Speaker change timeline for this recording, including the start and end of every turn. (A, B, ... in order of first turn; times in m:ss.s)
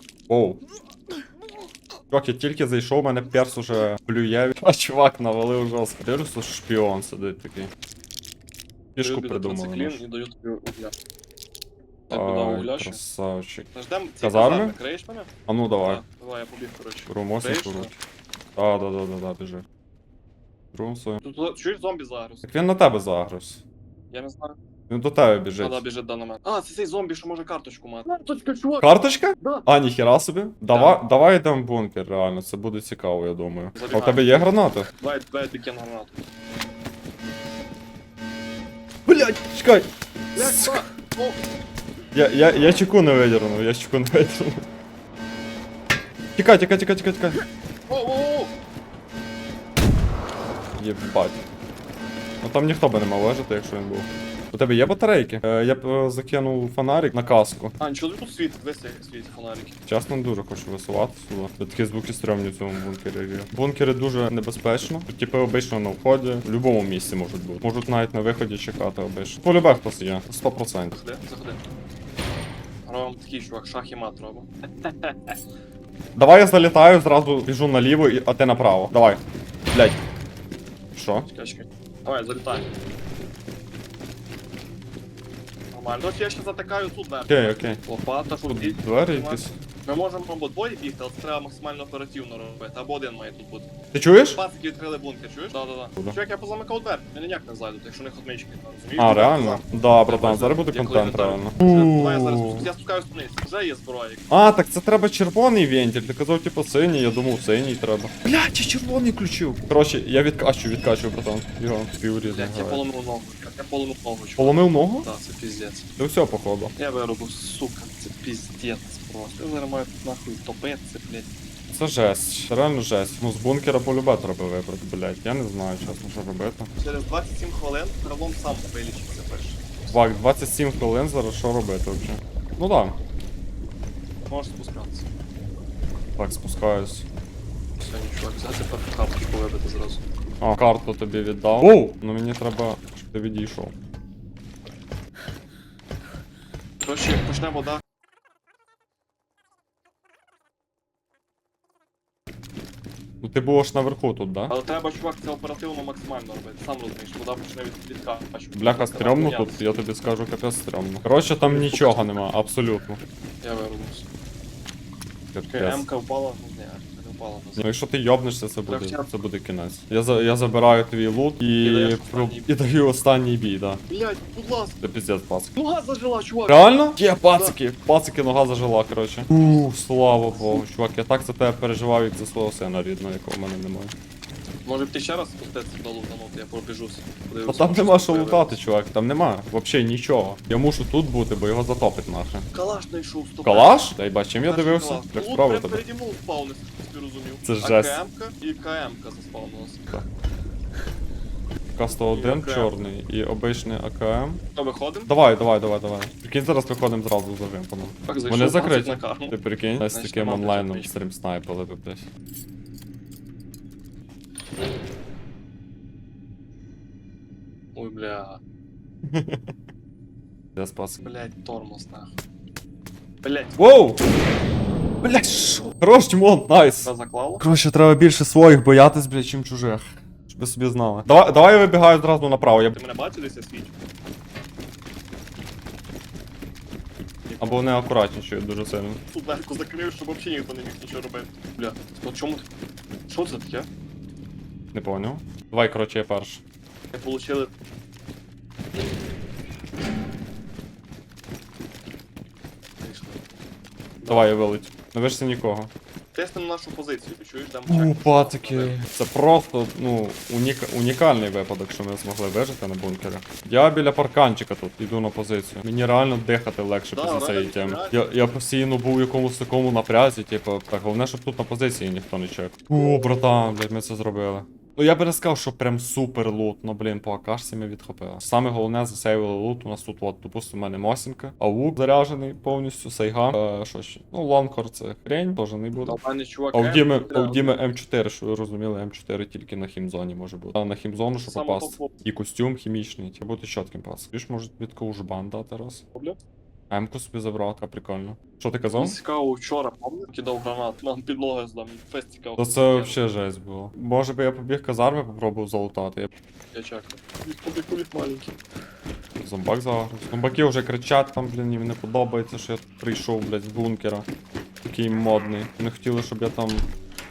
0:00.3-0:00.6 A
0:02.1-0:07.7 A
0:09.0-0:10.0 A
0:09.0-0:10.9 B
0:12.1-0:13.0 B
0:12.1-0:14.8 A
0:13.7-0:15.3 B
0:15.5-0:16.0 A
0:15.8-0:17.9 B
0:17.1-0:18.0 A
0:18.6-0:19.6 A
0:20.7-0:21.2 A
0:21.2-0:22.4 B
0:22.4-0:23.6 A
0:24.1-0:24.6 B
0:24.9-0:25.8 A
0:25.6-0:28.9 B
0:28.8-0:34.9 A
0:29.4-0:29.7 B
0:30.7-0:31.0 B
0:33.8-0:36.2 B
0:39.1-0:40.8 A
0:40.4-0:41.4 B
0:42.1-0:44.6 A
0:46.4-0:47.4 A
0:47.9-0:48.5 B
0:50.8-0:51.4 A
0:52.4-0:57.7 A
0:57.8-0:59.8 B
0:59.9-1:11.0 A
1:10.9-1:11.6 B
1:12.8-1:15.2 B
1:16.2-1:20.0 A
1:20.9-1:21.3 A
1:21.3-1:22.7 B
1:25.7-1:33.7 B
1:27.3-1:27.8 A
1:28.5-1:29.6 A
1:33.9-1:34.4 A
1:34.3-1:44.3 B
1:39.0-1:42.7 A
1:44.3-1:52.8 A
1:52.2-1:55.9 B
1:54.4-1:55.1 A
1:56.0-1:56.7 A
1:56.8-2:01.3 B
2:01.7-2:06.7 A
2:06.8-2:09.9 B
2:09.9-2:13.0 A
2:14.3-2:15.1 B
2:16.2-2:17.1 A
2:17.8-2:20.0 B
2:20.4-2:23.8 A
2:26.8-2:27.8 B
2:33.2-2:34.6 A
2:34.5-2:39.6 B
2:38.6-2:43.0 A
2:41.5-2:42.2 B
2:43.4-2:44.1 B
2:45.3-2:45.8 A
2:45.5-2:47.7 B
2:47.6-2:53.8 A
2:48.7-2:49.2 B
2:51.6-2:52.5 B
2:53.9-2:54.8 B
2:54.8-2:55.5 A
2:55.6-2:56.8 B
2:56.5-3:03.9 A
3:00.3-3:00.7 B
3:04.6-3:08.6 B
3:07.5-3:12.5 A
3:12.5-3:13.8 B
3:13.4-3:15.8 A
3:14.4-3:19.9 B
3:17.4-3:18.0 A
3:21.7-3:24.4 A
3:21.9-3:22.7 B
3:24.5-3:25.1 B
3:25.1-3:32.1 A
3:28.1-3:30.9 B
3:37.8-3:38.4 B
3:39.1-3:39.5 A
3:40.6-3:41.0 A
3:41.0-3:42.1 B
3:43.2-3:43.6 B
3:43.6-3:44.0 A
3:45.0-3:52.8 A
3:46.8-3:47.4 B
3:52.8-3:53.7 B
3:57.2-3:57.7 B
3:57.4-3:59.0 A
3:59.1-4:02.5 B
4:03.1-4:03.7 B
4:04.7-4:06.4 A
4:06.9-4:07.5 B
4:12.8-4:13.3 B
4:14.0-4:14.3 B
4:14.1-4:15.7 A
4:16.1-4:18.8 B
4:17.7-4:46.0 A
4:26.9-4:28.0 B
4:45.8-4:47.6 B
4:46.5-4:55.8 A
4:51.2-4:51.9 B
4:56.7-4:59.0 A
4:58.8-5:03.0 B
5:02.4-5:06.1 A
5:06.5-5:08.3 B
5:09.2-5:14.1 A
5:14.6-5:16.7 A